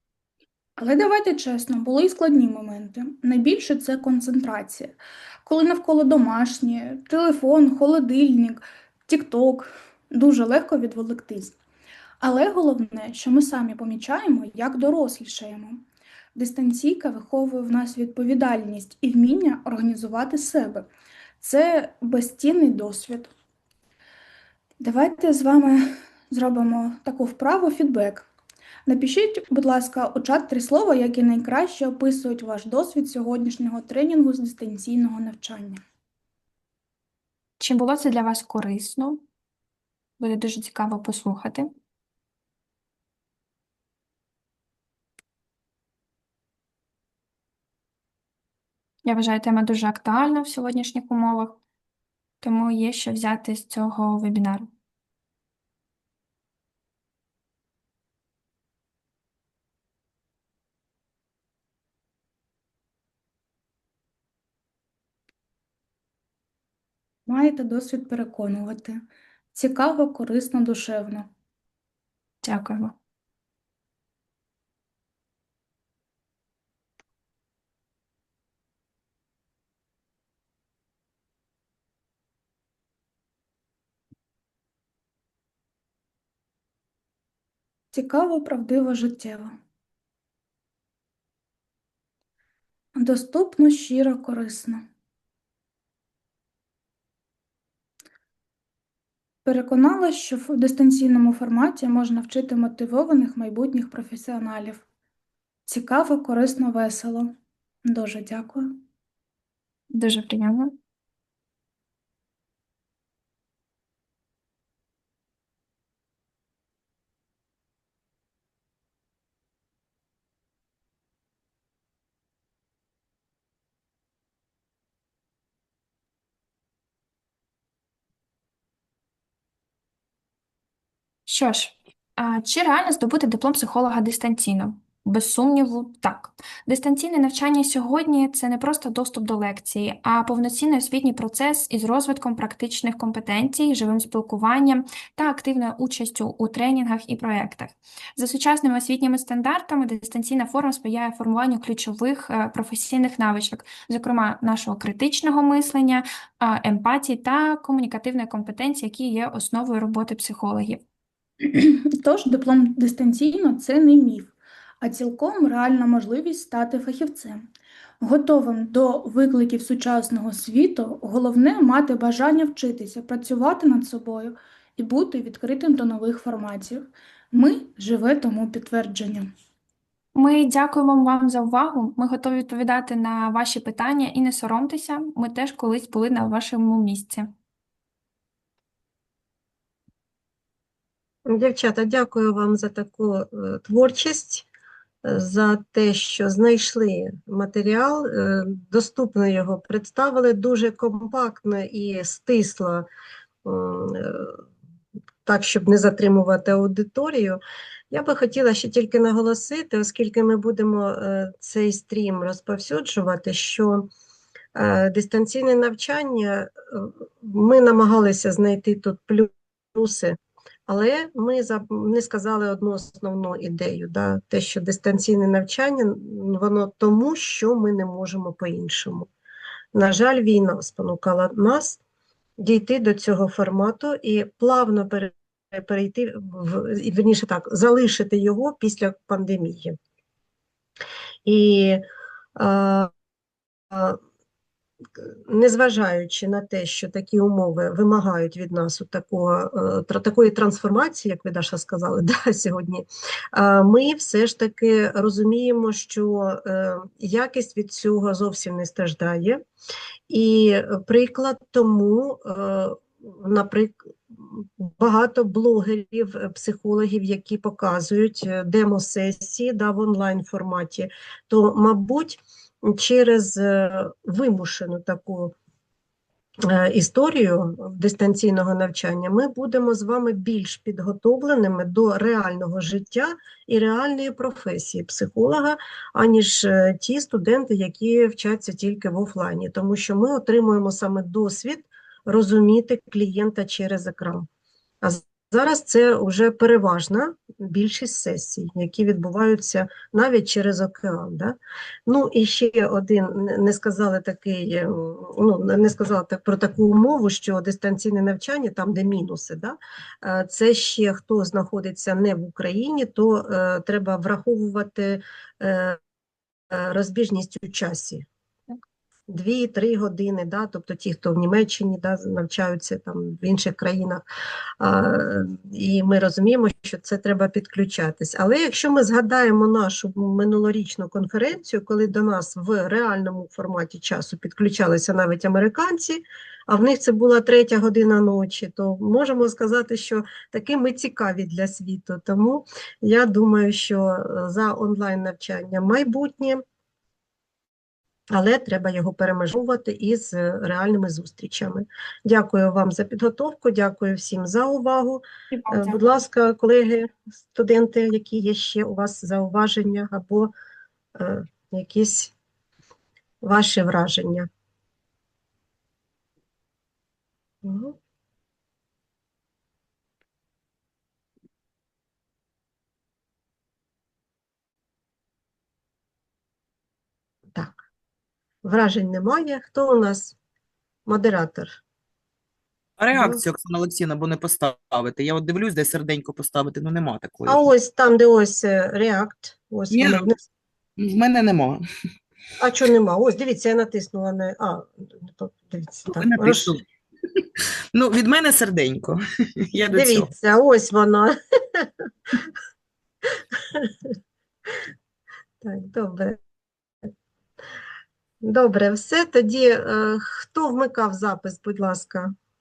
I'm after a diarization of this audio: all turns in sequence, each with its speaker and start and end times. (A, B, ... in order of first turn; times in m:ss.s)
0:00.8-0:11.6 A
0:12.2-0:15.8 A
0:16.4-0:20.9 A
0:21.4-0:23.3 A
0:24.8-0:28.3 A
0:28.9-0:35.8 A
0:37.6-0:39.2 B
0:40.2-0:41.7 B
0:49.0-0:51.6 B
0:52.4-0:54.7 B
1:07.3-1:09.0 A
1:09.5-1:11.3 A
1:12.4-1:13.0 B
1:27.9-1:29.6 A
1:33.0-1:34.8 A
1:39.4-1:44.8 A
1:45.7-1:48.8 A
1:49.9-1:50.8 B
2:11.3-2:40.8 B
2:41.4-2:47.5 A
2:48.0-2:59.3 A
3:00.2-3:07.3 B
3:11.3-3:14.5 C
3:15.0-3:22.9 C
3:23.4-3:24.4 C
3:25.2-3:27.4 C
3:27.9-3:33.9 C
3:34.6-3:49.1 C
3:49.7-3:51.8 C
3:52.4-3:59.8 C
4:01.2-4:01.8 C
4:02.4-4:02.9 C
4:03.7-4:04.0 C
4:05.0-4:19.4 C
4:20.1-4:35.3 C
4:36.4-4:54.3 C
4:54.8-5:15.8 C
5:16.5-5:18.1 C
5:19.1-5:24.0 C
5:24.6-5:46.4 C
5:48.1-6:00.3 C
6:01.0-6:02.1 C
6:03.2-6:04.3 C
6:07.4-6:07.8 C
6:18.4-6:20.2 C
6:20.9-6:21.6 C
6:22.8-6:27.5 D
6:22.9-6:23.2 C
6:27.3-6:30.2 C
6:29.7-6:30.1 D
6:30.8-6:31.6 D
6:32.4-6:36.5 C
6:36.0-6:36.6 D
6:37.7-6:39.0 D
6:39.5-6:40.1 D
6:39.7-6:41.7 C
6:45.4-6:46.2 C
6:48.2-6:52.1 C